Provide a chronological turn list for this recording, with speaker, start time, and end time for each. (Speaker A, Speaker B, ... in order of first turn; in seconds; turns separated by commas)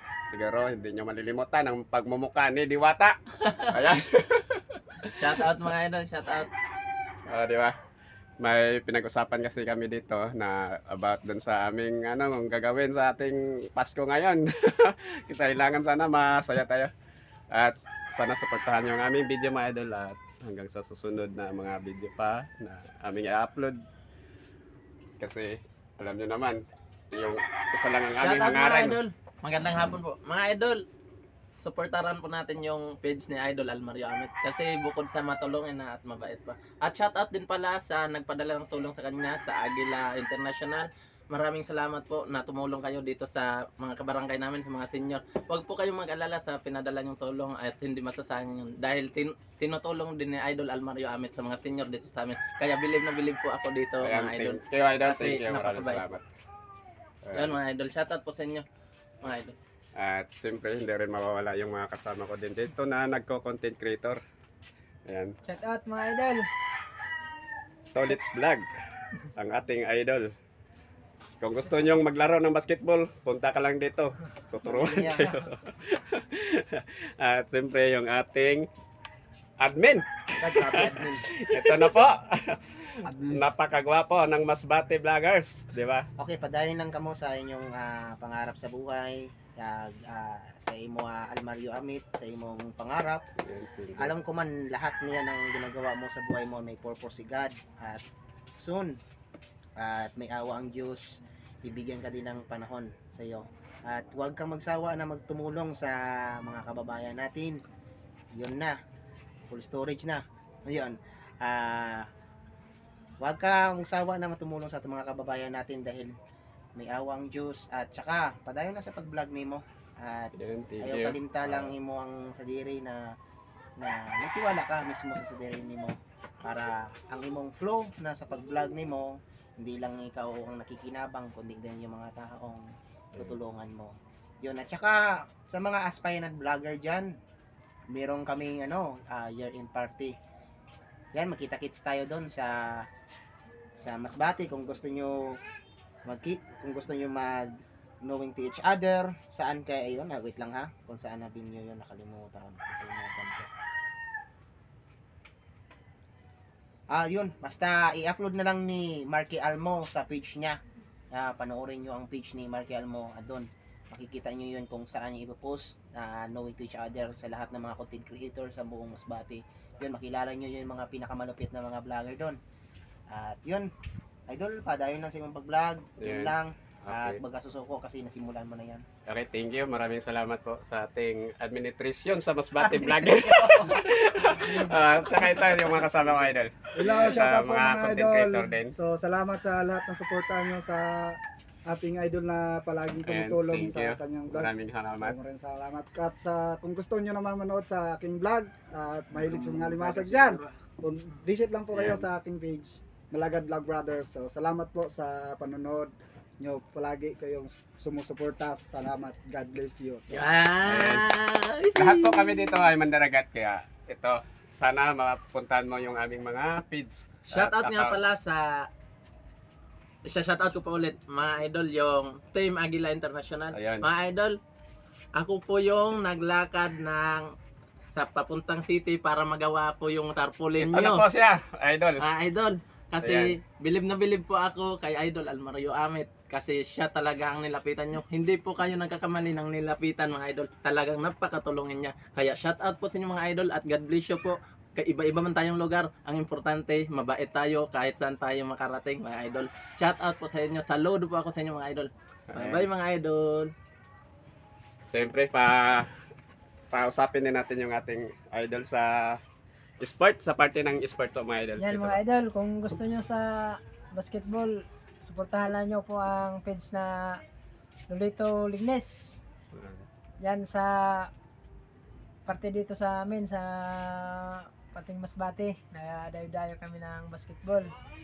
Speaker A: 0.3-3.2, Speaker A: 3.7-5.3, Speaker B: 5.2-6.5, Speaker A: 7.2-7.8, Speaker A: 8.4-16.9, Speaker A: 17.5-23.8, Speaker A: 25.2-26.6, Speaker A: 27.1-29.0, Speaker B: 28.2-30.8, Speaker B: 31.6-56.0, Speaker A: 54.0-56.3, Speaker A: 57.2-57.6, Speaker B: 57.3-58.6, Speaker B: 59.2-59.5, Speaker A: 60.0-64.2, Speaker A: 65.0-65.4, Speaker C: 65.4-66.5, Speaker A: 67.9-68.7, Speaker A: 69.4-70.3, Speaker A: 71.4-78.7, Speaker D: 74.6-75.3, Speaker A: 79.6-86.1, Speaker D: 80.4-81.3, Speaker E: 83.0-83.4, Speaker D: 86.2-93.2, Speaker A: 93.4-94.1, Speaker D: 93.9-98.0, Speaker D: 98.6-99.0, Speaker D: 99.8-107.6, Speaker D: 108.3-108.8, Speaker D: 109.5-112.1, Speaker D: 113.2-116.1, Speaker D: 116.8-123.0, Speaker A: 120.3-121.7, Speaker D: 123.8-132.7, Speaker D: 133.2-137.1, Speaker D: 137.9-140.2, Speaker D: 141.2-142.8, Speaker D: 143.8-145.2, Speaker D: 146.1-147.5, Speaker D: 148.0-153.5, Speaker D: 156.9-160.6, Speaker D: 161.1-172.4, Speaker D: 173.1-173.7, Speaker D: 174.3-178.8, Speaker A: 176.0-176.3, Speaker A: 176.8-177.2, Speaker A: 179.1-188.7, Speaker D: 182.6-183.7, Speaker E: 185.3-185.7, Speaker E: 186.7-210.3, Speaker A: 193.1-195.2, Speaker A: 201.7-202.0, Speaker B: 210.1-212.7, Speaker A: 210.6-211.1, Speaker A: 211.8-218.0, Speaker B: 217.3-218.7, Speaker B: 220.1-224.4, Speaker A: 223.5-223.9, Speaker B: 225.2-227.3, Speaker B: 227.9-231.0, Speaker A: 230.6-232.1, Speaker B: 232.0-253.5, Speaker A: 233.0-233.4, Speaker A: 252.3-252.7, Speaker A: 254.9-255.9, Speaker A: 256.7-259.2, Speaker A: 259.8-262.0, Speaker C: 261.6-267.2, Speaker C: 267.9-269.2, Speaker A: 269.5-269.9, Speaker C: 270.2-271.1, Speaker C: 272.2-277.7